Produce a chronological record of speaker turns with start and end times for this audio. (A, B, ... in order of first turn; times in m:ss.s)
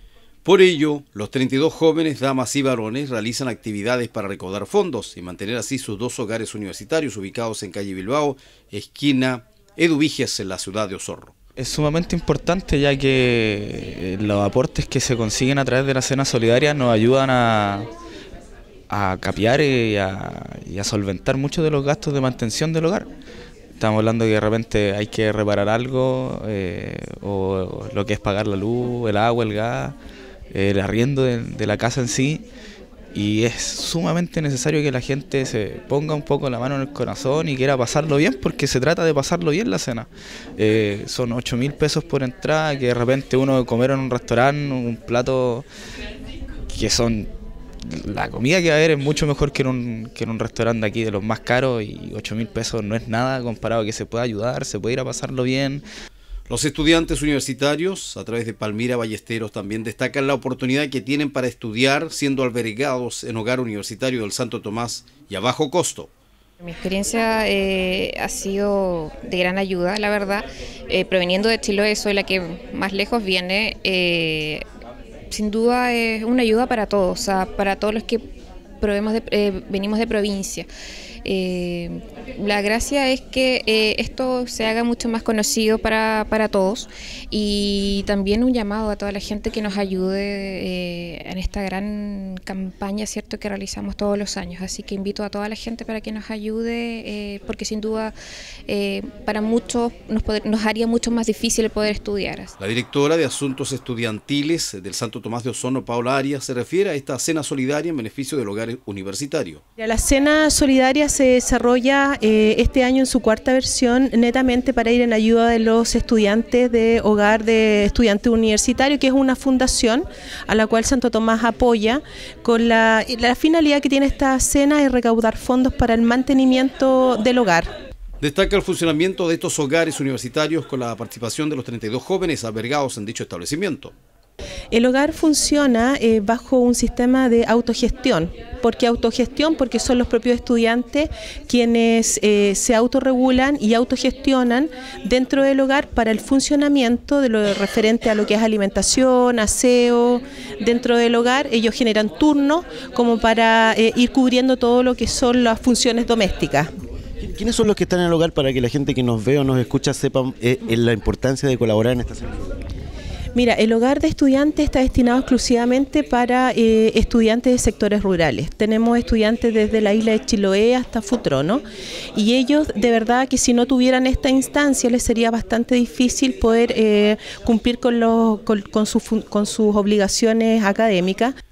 0:00.4-0:11.3 A
0:11.6-0:17.9 B
0:18.9-0:23.1 B
0:23.8-0:30.0 B
0:30.5-0:32.4 B
0:33.1-0:45.7 B
0:46.7-0:47.3 B
0:47.9-0:55.8 B
0:56.5-1:06.1 A
1:06.6-1:14.6 C
1:15.3-1:18.2 C
1:18.8-1:20.7 C
1:21.2-1:38.2 C
1:38.7-1:42.5 C
1:42.6-1:49.6 A
1:49.8-2:07.7 D
2:08.2-2:13.9 A
2:14.7-2:36.7 D
2:37.2-2:42.6 E
2:43.4-2:51.6 D
2:52.2-3:01.4 D